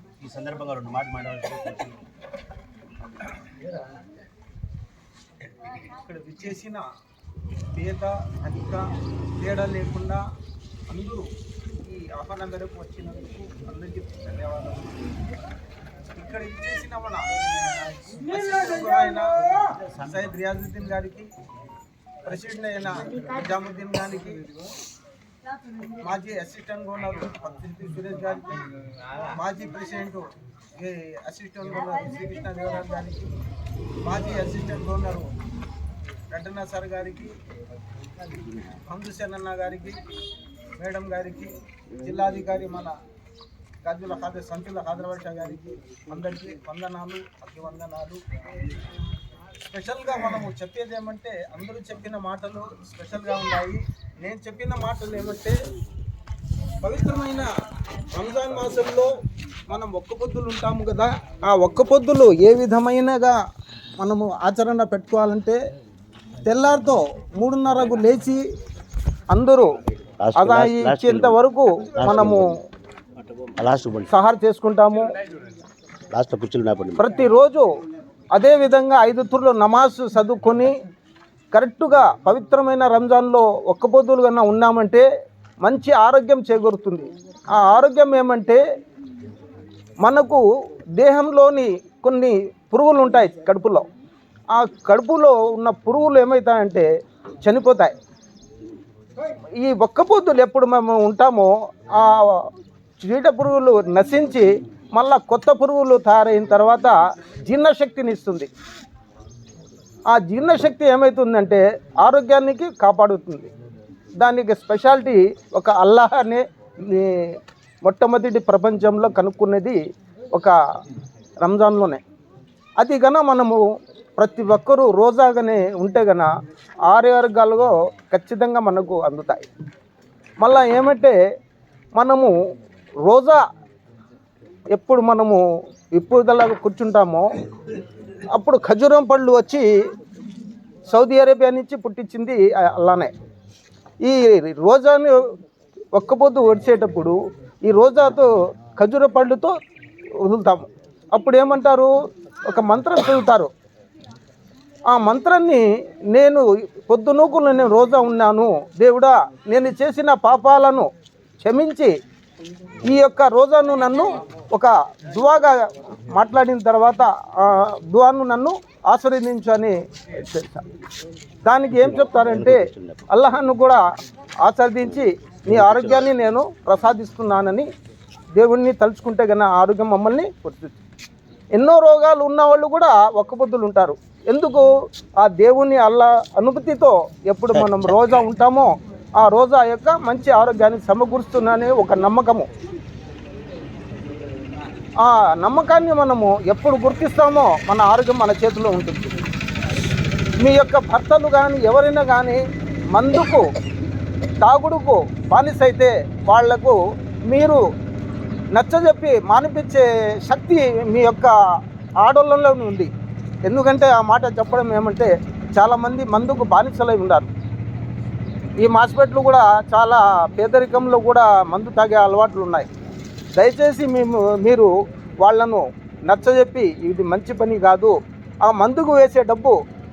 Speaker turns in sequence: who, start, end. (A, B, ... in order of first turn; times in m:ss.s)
0:00.2-0:02.0 A
0:05.9-0:06.8 B
0:07.7-0:08.8 B
0:09.4-0:10.2 B
0:10.9-0:15.1 B
0:16.2-0:21.3 B
0:22.2-0:24.5 B
0:26.0-0:28.7 B
0:29.3-0:33.3 B
0:34.0-0:35.2 B
0:36.3-0:37.3 B
0:38.8-0:40.0 B
0:40.8-0:42.9 B
0:43.8-0:48.2 B
0:49.6-0:55.5 B
0:56.8-0:57.4 B
0:58.2-0:59.1 B
0:59.7-1:03.3 B
1:04.0-1:05.6 B
1:06.4-1:08.4 B
1:09.3-1:09.7 B
1:10.2-1:11.4 A
1:10.4-1:12.5 B
1:12.0-1:12.5 A
1:13.6-1:14.1 A
1:14.1-1:15.0 B
1:16.1-1:17.0 A
1:17.0-1:17.6 B
1:18.3-1:20.7 B
1:21.5-1:25.0 B
1:25.6-1:28.6 B
1:30.0-1:30.4 B
1:31.0-1:33.8 B
1:34.6-1:36.8 B
1:37.4-1:37.9 B
1:39.6-1:42.5 B
1:43.0-1:46.9 B
1:47.4-1:48.5 B
1:50.1-1:53.5 B
1:54.2-1:59.8 B
2:01.4-2:02.0 B
2:02.8-2:03.6 B
2:04.2-2:06.3 B
2:06.9-2:09.5 B
2:10.4-2:11.1 B
2:11.9-2:12.3 B
2:13.0-2:13.4 B
2:14.7-2:15.4 B
2:16.0-2:17.3 B
2:18.3-2:19.7 B
2:20.9-2:23.1 B
2:24.0-2:25.2 B
2:25.9-2:27.1 B
2:27.6-2:29.5 B
2:30.2-2:31.9 B
2:32.5-2:33.5 B
2:34.9-2:35.6 B
2:36.1-2:40.9 B
2:41.4-2:41.9 B
2:42.8-2:50.7 B
2:51.4-2:52.6 B
2:51.7-2:53.0 A
2:53.1-2:53.8 B
2:54.4-2:57.6 B
2:55.5-2:56.1 A
2:58.4-3:00.7 B
3:01.5-3:04.7 B
3:05.2-3:12.5 B
3:07.5-3:08.2 A
3:15.0-3:19.2 B
3:20.4-3:22.4 B
3:22.9-3:23.4 B
3:24.4-3:26.8 B
3:27.3-3:27.6 B
3:28.6-3:31.3 B
3:32.0-3:32.9 B
3:33.4-3:37.3 B
3:38.6-3:42.7 B
3:43.4-3:44.7 B
3:45.2-3:47.9 B
3:48.4-3:49.6 B